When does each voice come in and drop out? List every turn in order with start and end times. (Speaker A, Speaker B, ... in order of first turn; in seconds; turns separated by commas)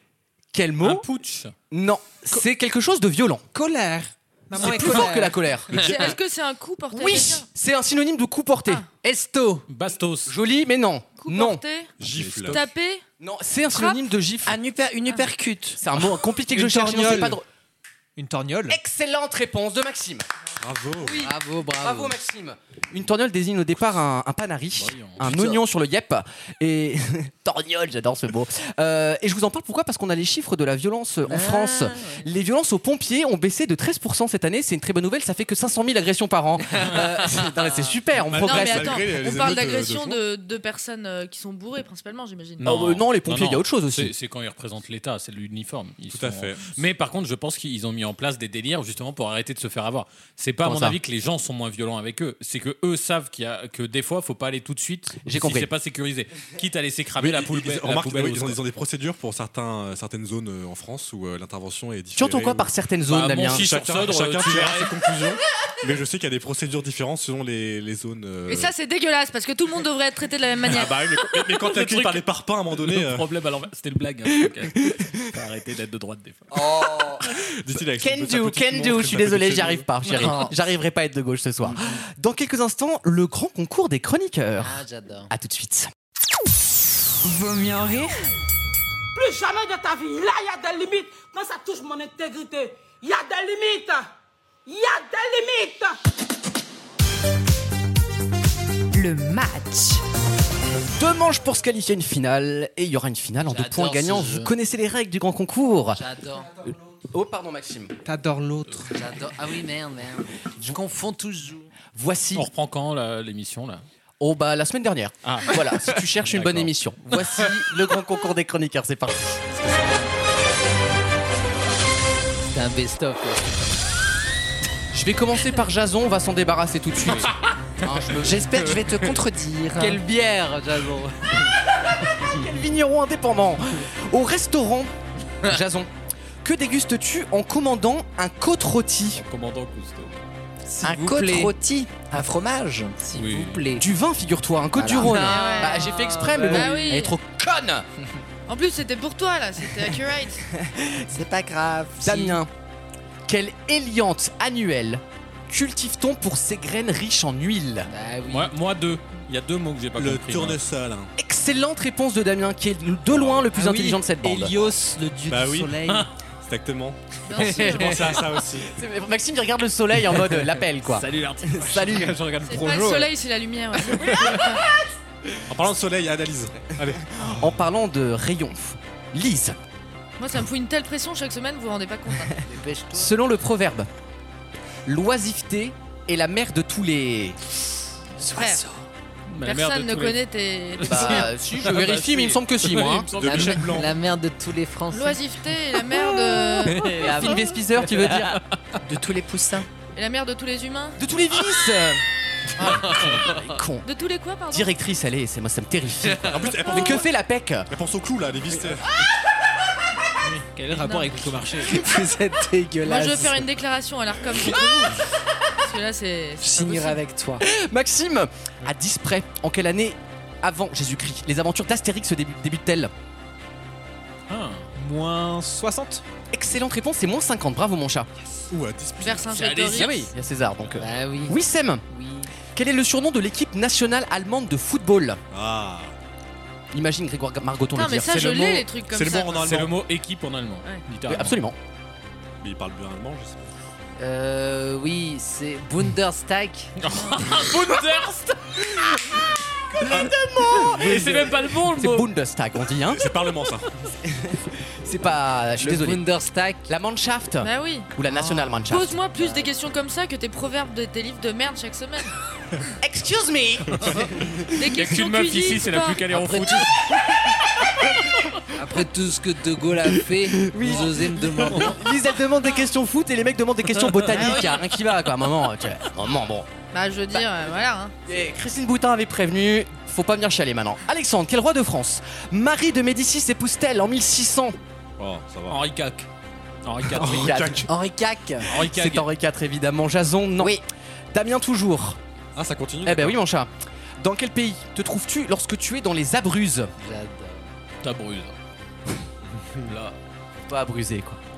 Speaker A: 0.5-1.1, Speaker B: 0.8-1.5, Speaker A: 1.7-3.5, Speaker C: 3.5-5.4, Speaker A: 4.5-5.9, Speaker D: 4.6-4.9, Speaker E: 5.7-7.5, Speaker D: 5.7-6.2, Speaker A: 6.9-8.8, Speaker F: 9.0-9.6, Speaker B: 9.7-10.3, Speaker A: 10.2-11.6, Speaker E: 11.2-11.9, Speaker D: 12.0-12.7, Speaker B: 12.0-12.6, Speaker E: 12.5-13.0, Speaker A: 13.2-14.6, Speaker E: 13.7-14.0, Speaker G: 14.4-15.8, Speaker A: 15.8-17.4, Speaker C: 16.5-17.4, Speaker C: 18.1-18.8, Speaker A: 18.7-20.2, Speaker D: 20.6-21.3, Speaker E: 21.0-21.3, Speaker F: 21.2-22.1, Speaker A: 21.8-39.0, Speaker B: 24.8-25.5, Speaker F: 31.3-32.2, Speaker D: 38.3-40.2, Speaker E: 38.4-42.7, Speaker B: 42.6-58.6, Speaker A: 42.6-44.1, Speaker D: 46.1-46.8, Speaker A: 50.6-51.0, Speaker A: 55.2-55.7, Speaker D: 57.2-62.7, Speaker A: 62.1-63.7, Speaker B: 63.1-64.9, Speaker D: 63.4-68.7, Speaker E: 68.5-71.0, Speaker D: 70.6-73.2, Speaker B: 71.2-76.7, Speaker A: 74.8-75.2, Speaker A: 76.6-77.2, Speaker D: 77.4-79.9, Speaker A: 77.7-85.9, Speaker G: 80.2-80.5, Speaker F: 84.6-85.3, Speaker H: 87.2-88.2, Speaker I: 89.1-94.1, Speaker I: 94.7-96.0, Speaker H: 98.9-100.0, Speaker A: 101.0-106.0, Speaker F: 103.5-104.5, Speaker F: 105.9-106.5, Speaker A: 107.1-107.9, Speaker C: 108.0-108.9, Speaker F: 108.9-111.7, Speaker A: 111.9-112.5, Speaker B: 112.3-113.8, Speaker A: 114.2-119.5, Speaker B: 115.2-117.2, Speaker F: 122.5-123.8, Speaker A: 124.9-128.8, Speaker G: 128.2-130.0, Speaker F: 129.8-131.4, Speaker A: 132.1-135.9, Speaker A: 136.4-139.2, Speaker B: 139.2-140.2, Speaker F: 140.7-141.5, Speaker G: 140.8-142.9, Speaker F: 143.0-143.8, Speaker B: 143.1-143.7, Speaker A: 143.8-147.8, Speaker G: 144.8-145.3, Speaker F: 145.1-146.9, Speaker E: 145.2-147.2, Speaker E: 148.5-150.4, Speaker G: 151.0-152.3, Speaker A: 152.0-152.5, Speaker A: 153.3-157.9, Speaker F: 157.9-158.5, Speaker B: 158.3-160.6, Speaker D: 160.0-161.1, Speaker A: 161.2-164.7, Speaker D: 163.1-163.5, Speaker F: 163.6-166.1, Speaker C: 163.7-164.0, Speaker D: 165.3-165.8, Speaker B: 165.8-166.1, Speaker D: 166.4-168.7, Speaker E: 167.2-168.4, Speaker F: 167.3-168.2, Speaker A: 168.7-172.2, Speaker B: 171.0-171.5, Speaker C: 171.0-173.1, Speaker E: 172.4-174.6, Speaker C: 173.9-174.5, Speaker D: 175.5-177.2, Speaker A: 177.1-179.6, Speaker E: 180.2-182.4, Speaker F: 182.4-183.1, Speaker A: 182.9-183.9, Speaker A: 184.8-187.4, Speaker E: 188.3-188.6, Speaker B: 189.3-190.2, Speaker E: 189.4-191.3, Speaker B: 190.8-193.8, Speaker A: 190.8-193.1, Speaker D: 193.1-193.9, Speaker F: 193.2-195.2, Speaker E: 194.9-196.9, Speaker F: 196.7-197.4, Speaker A: 196.9-198.4, Speaker G: 198.8-199.7, Speaker E: 199.9-201.0, Speaker A: 201.0-202.0, Speaker A: 202.6-203.8, Speaker B: 202.9-203.4, Speaker E: 203.8-204.7, Speaker A: 204.5-207.7, Speaker D: 206.2-207.1, Speaker D: 207.7-208.9, Speaker C: 210.3-211.8, Speaker E: 210.7-211.2, Speaker G: 211.7-213.5, Speaker E: 212.8-215.0, Speaker E: 215.6-217.0, Speaker G: 216.4-217.4, Speaker A: 217.4-222.9, Speaker B: 224.3-224.7, Speaker C: 224.7-226.0, Speaker A: 226.3-228.1, Speaker D: 228.5-229.6, Speaker E: 229.0-230.1, Speaker B: 229.3-230.0, Speaker A: 229.7-231.8, Speaker F: 230.8-231.4, Speaker F: 231.9-232.3, Speaker A: 232.5-235.2, Speaker D: 235.3-235.9, Speaker A: 236.7-238.7, Speaker E: 237.7-239.6, Speaker D: 238.8-239.8, Speaker B: 239.4-241.4, Speaker A: 241.1-241.6, Speaker D: 242.4-243.5, Speaker F: 244.0-246.7, Speaker B: 246.8-249.0, Speaker E: 246.9-247.3, Speaker A: 249.8-253.1, Speaker D: 249.9-251.0, Speaker B: 250.6-252.1, Speaker D: 252.8-253.7, Speaker A: 254.1-256.0, Speaker F: 255.6-256.7, Speaker A: 256.7-259.0, Speaker E: 257.4-257.9, Speaker E: 258.7-262.1, Speaker F: 259.1-259.5, Speaker A: 262.8-264.1, Speaker E: 264.5-266.1, Speaker B: 264.7-266.8, Speaker A: 266.2-267.3, Speaker F: 268.5-271.8, Speaker A: 270.1-276.5, Speaker E: 276.7-277.9, Speaker A: 278.1-284.6, Speaker D: 285.0-285.6, Speaker B: 285.5-286.1, Speaker B: 286.6-287.4, Speaker D: 286.9-287.7, Speaker A: 286.9-287.7, Speaker G: 287.7-288.4, Speaker B: 288.4-289.1, Speaker A: 288.5-292.0, Speaker D: 292.4-293.2, Speaker A: 292.8-296.7, Speaker F: 296.8-297.5, Speaker B: 297.8-298.3, Speaker D: 299.4-299.7, Speaker B: 299.6-299.9, Speaker A: 300.4-301.2